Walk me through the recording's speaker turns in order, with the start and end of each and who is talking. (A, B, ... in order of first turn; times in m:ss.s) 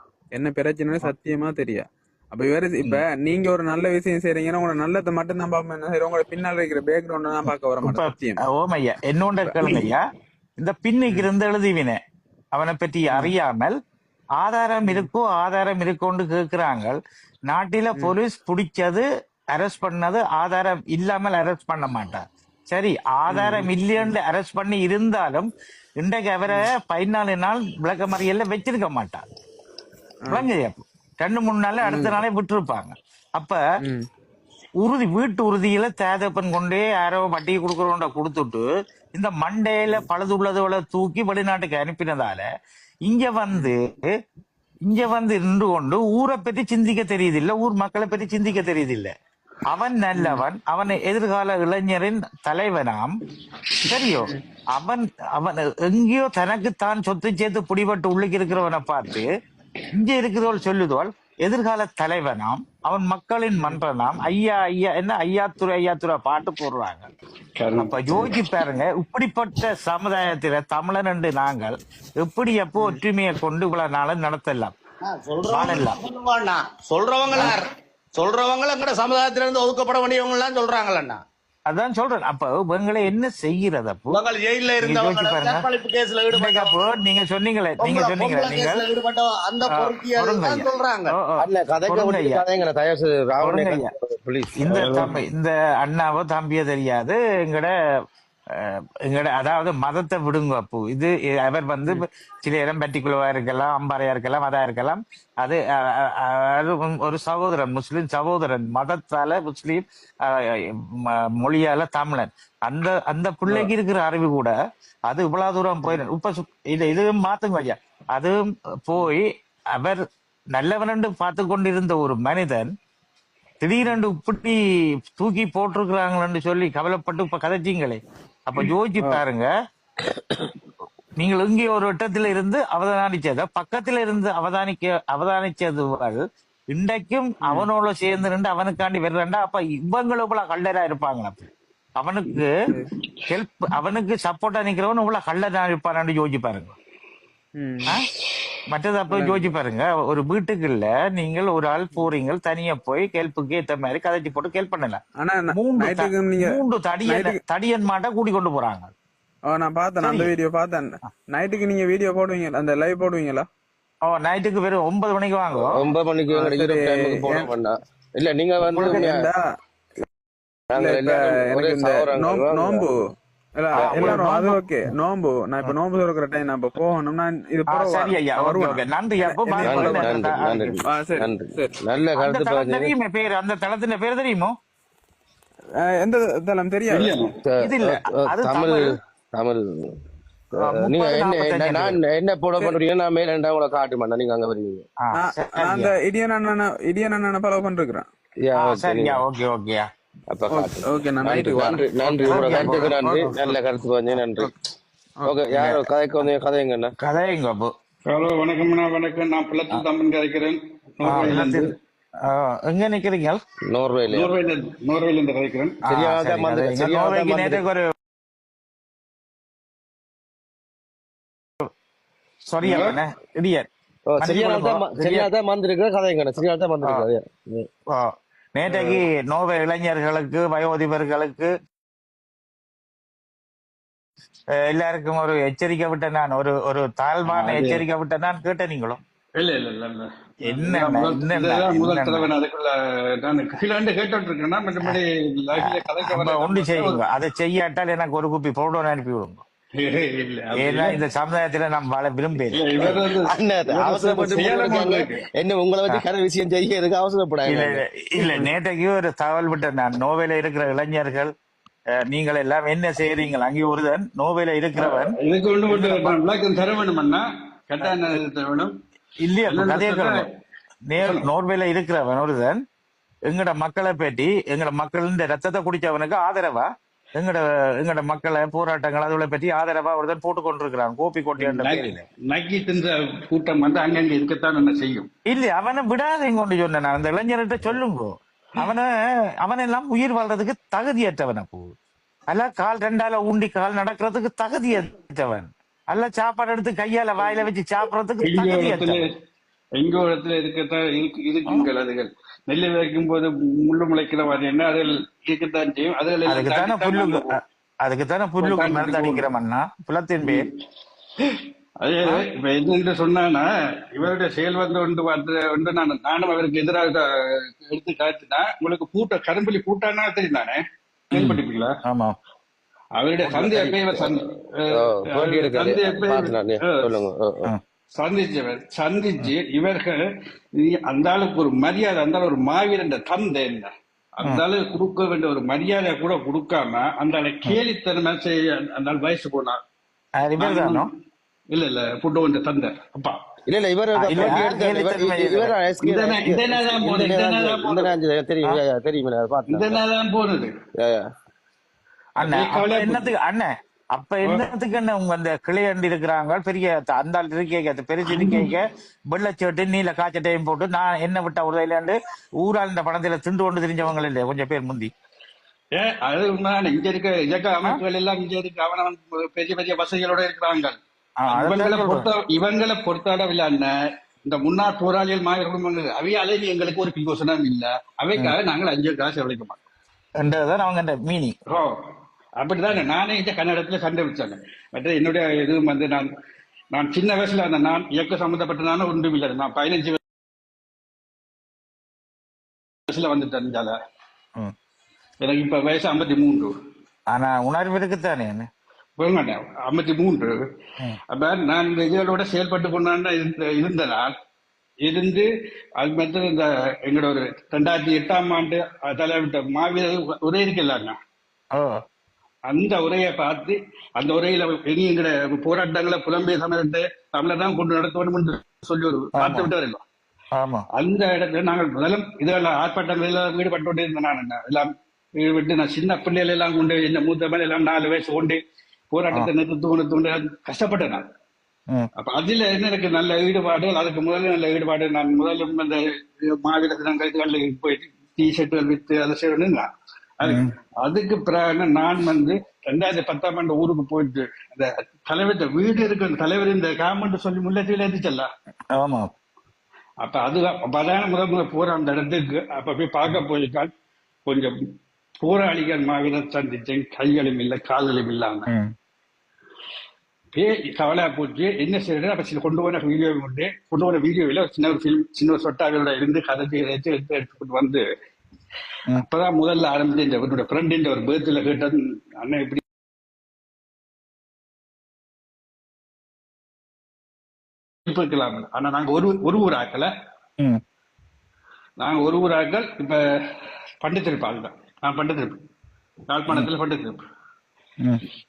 0:00.3-0:08.4 A
0:07.8-0:10.0 B
0:09.5-0:09.9 A
0:10.6-0:12.0 B
0:12.5-0:13.7 B
0:14.4-0:17.0 B
0:17.5-0:19.0 B
0:19.5-0:29.2 B
0:23.3-0:24.1 A
0:30.3-0:33.6 B
0:31.8-0:32.2 A
0:34.8-0:42.4 B
0:43.1-0:44.0 B
0:44.8-0:49.1 B
0:49.7-0:53.2 B
0:50.2-0:50.4 A
0:53.8-0:59.3 B
0:59.9-1:07.1 B
1:07.6-1:08.4 C
1:07.8-1:14.7 B
1:15.0-1:21.2 D
1:15.5-1:16.0 B
1:17.3-1:17.6 B
1:21.7-1:24.2 B
1:24.1-1:26.8 D
1:24.8-1:25.7 B
1:26.3-1:28.8 B
1:27.8-1:31.2 D
1:29.7-1:32.4 B
1:31.4-1:35.0 E
1:33.4-1:33.9 B
1:34.6-1:37.7 B
1:38.6-1:54.5 B
1:55.1-2:00.0 B
2:00.5-2:02.7 B
2:03.6-2:04.6 B
2:05.2-2:09.5 B
2:11.2-2:21.4 B
2:22.0-2:22.5 B
2:23.3-2:26.8 B
2:27.6-2:27.9 A
2:28.7-2:35.0 B
2:29.1-2:29.5 A
2:35.2-2:36.5 A
2:35.5-2:38.9 B
2:37.0-2:37.4 A
2:39.5-2:43.5 A
2:40.0-2:40.3 B
2:44.0-2:45.8 B
2:45.6-2:49.3 E
2:46.3-2:47.5 A
2:48.7-2:49.1 B
2:48.7-2:49.4 A
2:50.7-2:52.8 E
2:50.7-2:53.0 A
2:53.6-3:00.3 A
2:53.8-2:54.2 E
2:53.8-2:54.9 B
2:57.7-3:00.8 B
2:59.6-3:02.9 E
3:00.8-3:01.7 A
3:02.2-3:04.5 B
3:05.8-3:07.1 A
3:06.9-3:07.4 C
3:07.4-3:09.9 E
3:07.6-3:08.9 B
3:10.6-3:14.8 E
3:10.6-3:12.0 B
3:15.0-3:15.9 B
3:15.1-3:18.0 A
3:18.4-3:19.2 E
3:18.6-3:19.9 B
3:20.3-3:24.5 E
3:20.5-3:23.5 A
3:22.2-3:23.0 B
3:25.2-3:26.9 E
3:25.5-3:25.8 B
3:27.0-3:27.7 B
3:28.1-3:31.7 C
3:31.0-3:31.7 B
3:32.3-3:33.4 B
3:33.7-3:34.3 E
3:34.1-3:35.8 C
3:35.8-3:37.9 B
3:35.9-3:37.6 E
3:42.5-3:43.7 B
3:42.6-3:43.0 C
3:44.1-3:47.7 E
3:44.2-3:45.3 B
3:47.9-3:51.5 B
3:54.5-3:59.0 B
3:57.3-3:57.8 C
3:59.4-4:07.0 C
4:00.4-4:02.3 B
4:05.6-4:09.4 B
4:09.8-4:11.0 C
4:10.6-4:12.9 B
4:12.4-4:15.2 C
4:13.2-4:17.8 E
4:17.4-4:21.3 B
4:18.2-4:18.5 C
4:22.0-4:25.2 B
4:24.8-4:28.7 C
4:25.7-4:26.2 B
4:29.2-4:30.2 B
4:29.5-4:30.2 C
4:30.9-4:32.6 B
4:31.0-4:31.3 C
4:33.3-4:42.0 B
4:41.4-4:45.1 C
4:45.2-4:48.9 B
4:49.4-4:51.7 B
4:52.3-4:59.0 B
4:58.2-4:59.0 C
4:59.8-5:07.3 C
5:06.3-5:10.5 B
5:08.4-5:09.3 C
5:10.2-5:10.5 C
5:11.2-5:17.0 C
5:17.6-5:21.7 C
5:21.1-5:22.1 B
5:23.0-5:26.9 C
5:23.3-5:24.2 E
5:24.7-5:27.5 E
5:28.0-5:30.0 C
5:30.6-5:39.6 C
5:40.2-5:40.9 B
5:40.4-5:40.9 C
5:41.5-5:43.2 C
5:43.5-5:49.8 E
5:43.9-5:45.5 B
5:45.8-5:47.9 C
5:49.5-5:50.5 C
5:50.8-5:51.0 E
5:52.2-6:04.9 B
5:52.2-5:53.1 C
5:58.1-5:58.5 C
6:05.8-6:10.8 C
6:11.2-6:12.1 B
6:11.3-6:13.7 C
6:14.3-6:19.6 C
6:20.2-6:21.4 B
6:22.4-6:26.1 C
6:26.7-6:30.0 C
6:32.9-6:33.7 C
6:35.2-6:36.5 C
6:37.1-6:38.5 B
6:39.0-6:40.3 C
6:41.1-6:44.1 C
6:44.9-6:45.2 C
6:45.8-6:51.0 C
6:52.5-6:59.8 C
6:59.1-6:59.5 B
7:00.4-7:00.6 B
7:00.7-7:04.7 C
7:05.2-7:08.4 C
7:08.9-7:11.0 C
7:12.0-7:15.8 C
7:16.4-7:19.7 C
7:20.2-7:28.3 C
7:20.2-7:20.5 B
7:28.7-7:29.1 B
7:30.0-7:33.7 C
7:35.2-7:38.5 C
7:40.3-7:47.8 C
7:49.0-7:52.6 C
7:57.9-7:59.9 C
8:01.8-8:03.0 C
8:03.8-8:05.3 C
8:06.1-8:07.0 C